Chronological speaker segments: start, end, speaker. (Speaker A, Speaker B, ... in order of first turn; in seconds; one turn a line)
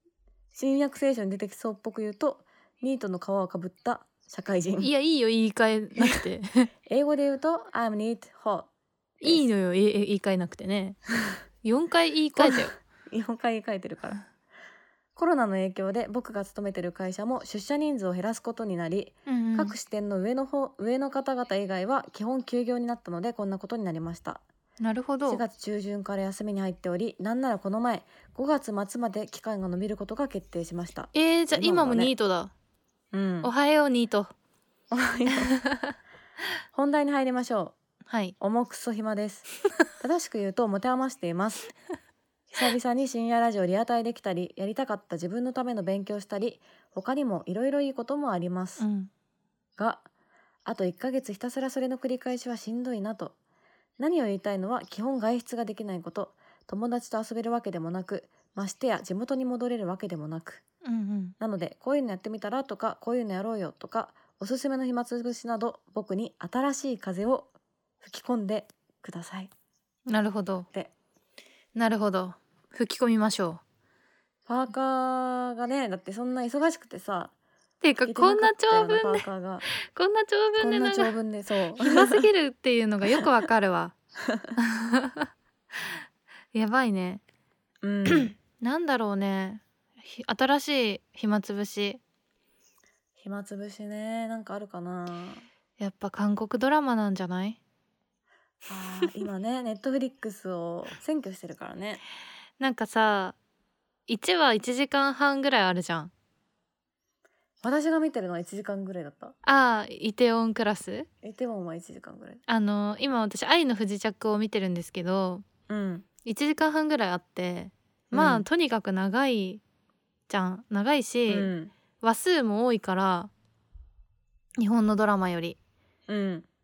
Speaker A: 0.5-4.9
Speaker B: 4.8-6.7
Speaker A: 6.9-8.7
Speaker B: 9.2-11.0
Speaker B: 11.6-12.7
Speaker A: 12.4-14.2
Speaker A: 15.2-24.4
Speaker B: 19.3-19.8
Speaker B: 24.8-25.4
Speaker A: 25.3-32.1
Speaker B: 31.1-32.5
Speaker A: 33.1-33.5
Speaker B: 33.4-34.3
Speaker A: 34.9-35.6
Speaker B: 35.5-35.9
Speaker A: 36.7-37.8
Speaker B: 38.1-38.4
Speaker A: 38.4-39.5
Speaker A: 40.0-41.7
Speaker A: 42.5-48.8
Speaker B: 48.8-49.1
Speaker A: 49.8-50.0
Speaker A: 50.7-53.4
Speaker A: 54.0-60.6
Speaker B: 60.8-61.4
Speaker A: 61.4-67.5
Speaker A: 68.0-69.5
Speaker B: 70.1-70.7
Speaker B: 71.8-73.6
Speaker A: 74.5-77.3
Speaker B: 77.8-79.3
Speaker A: 78.0-79.6
Speaker B: 79.9-81.1
Speaker A: 80.6-82.3
Speaker B: 81.8-84.0
Speaker B: 84.6-85.3
Speaker B: 86.5-87.2
Speaker A: 87.8-88.3
Speaker B: 88.1-92.0
Speaker A: 93.2-95.4
Speaker B: 95.8-97.6
Speaker A: 98.7-102.0
Speaker B: 102.6-103.4
Speaker B: 104.1-106.1
Speaker A: 107.6-109.3
Speaker B: 109.4-111.1
Speaker A: 111.2-112.4
Speaker B: 112.5-115.5
Speaker A: 115.7-116.1
Speaker B: 116.2-119.6
Speaker A: 118.1-118.5
Speaker B: 120.3-123.3
Speaker A: 121.3-121.7
Speaker B: 124.6-125.6
Speaker A: 126.1-126.5